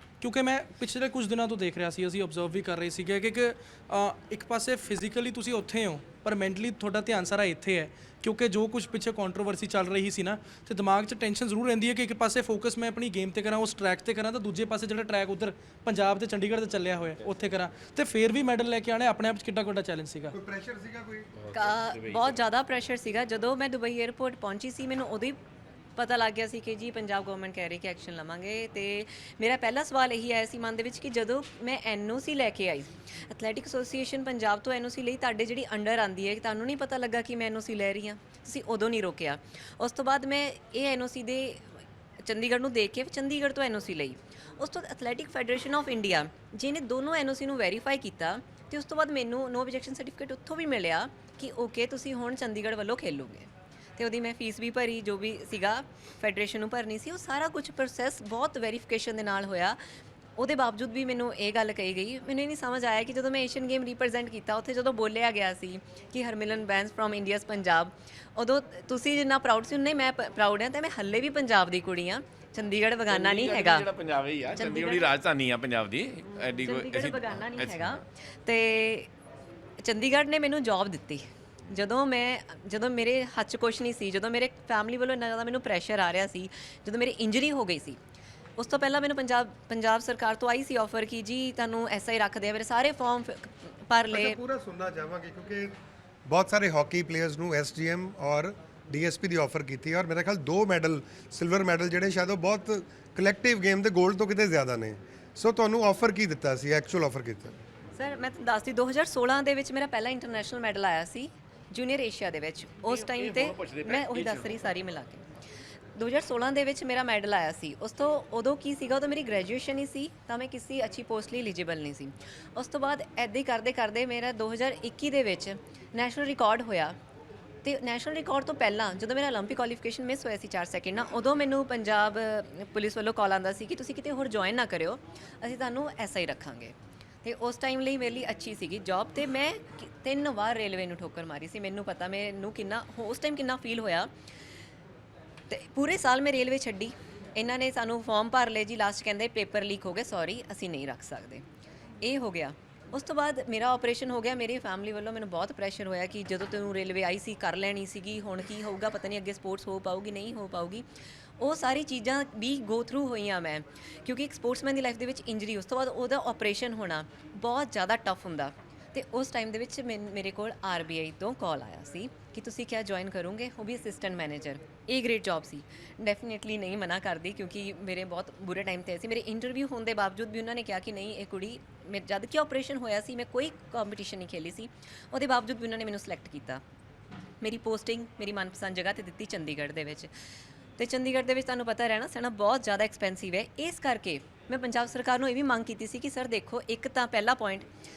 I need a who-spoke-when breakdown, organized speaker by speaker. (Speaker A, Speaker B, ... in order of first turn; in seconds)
Speaker A: 0.2-20.3
Speaker B: 20.3-21.3, 94.1-95.7, 96.2-107.5
Speaker C: 21.4-22.4, 73.1-78.0, 112.9-114.6
Speaker D: 21.5-25.4, 26.0-59.8, 60.4-73.9, 74.5-75.1, 76.5-79.1, 79.8-88.0, 88.6-94.4, 107.9-115.2, 115.9-127.0, 127.6-144.1, 145.5-151.4, 152.0-160.8, 161.4-186.6, 187.4-190.1, 190.8-197.7